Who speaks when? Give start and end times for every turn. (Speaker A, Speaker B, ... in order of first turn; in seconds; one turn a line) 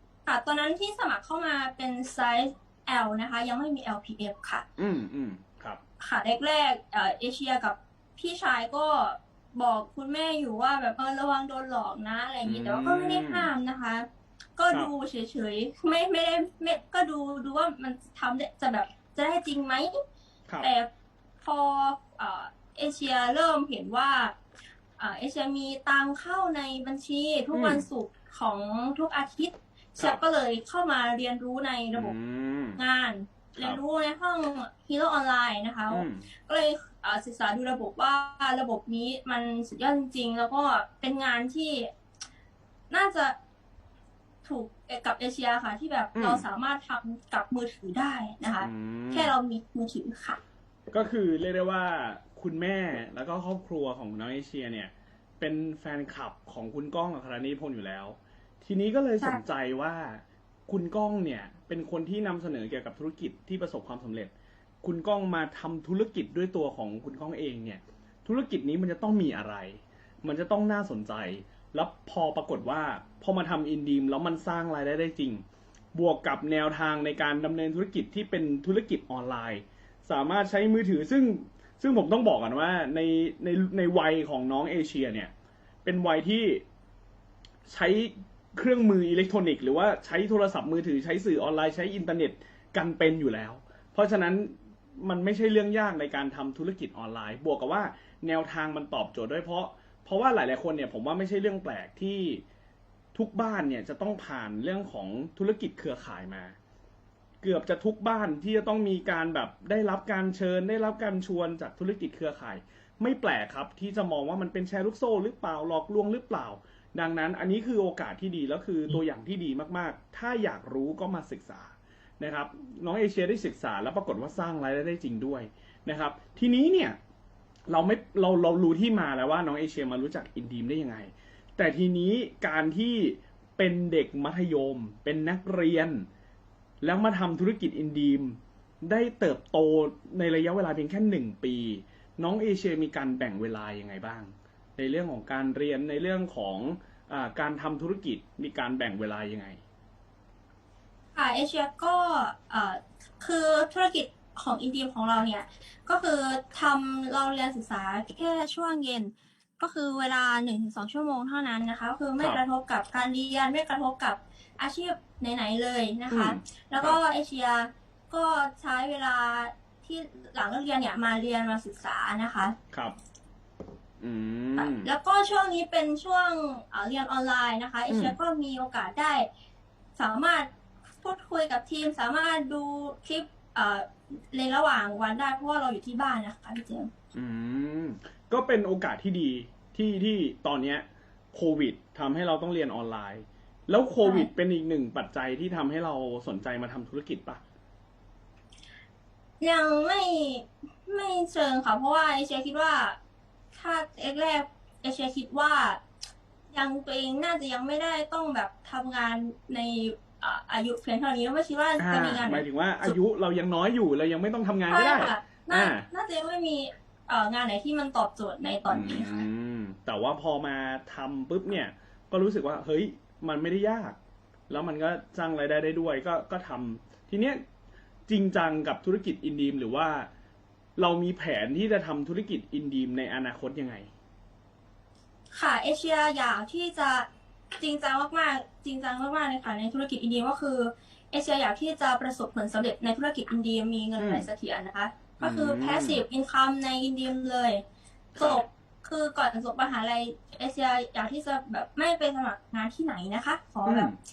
Speaker A: 0.3-4.7
Speaker B: 4.8-5.8
Speaker A: 6.0-20.0
Speaker B: 12.4-13.5
Speaker A: 20.6-20.9
Speaker A: 21.4-24.4
Speaker A: 25.0-32.1
Speaker B: 27.5-27.9
Speaker B: 31.9-32.8
Speaker A: 32.8-41.9
Speaker B: 35.9-36.3
Speaker A: 42.9-43.4
Speaker A: 44.4-50.4
Speaker B: 46.1-46.5
Speaker B: 48.6-49.3
Speaker B: 50.9-75.4
Speaker B: 76.0-85.3
Speaker B: 85.8-86.6
Speaker B: 87.7-102.4
Speaker B: 103.1-106.5
Speaker B: 107.4-127.0
Speaker B: 127.7-136.1
Speaker B: 136.8-149.6
Speaker A: 151.2-172.6
Speaker B: 166.1-167.0
Speaker B: 174.0-174.9
Speaker A: 174.6-179.2
Speaker B: 177.9-178.2
Speaker A: 180.0-180.5
Speaker A: 181.0-186.9
Speaker B: 187.1-197.4
Speaker A: 194.0-194.3
Speaker A: 199.4-203.0
Speaker A: 203.5-205.8
Speaker A: 206.5-213.0
Speaker B: 211.8-215.9
Speaker A: 214.7-219.2
Speaker B: 218.7-224.0
Speaker B: 224.5-227.4
Speaker B: 228.1-230.1
Speaker B: 230.8-233.9
Speaker A: 235.3-247.6
Speaker B: 244.0-244.3
Speaker B: 245.2-246.0
Speaker B: 248.2-248.4
Speaker A: 248.2-253.9
Speaker B: 253.7-253.9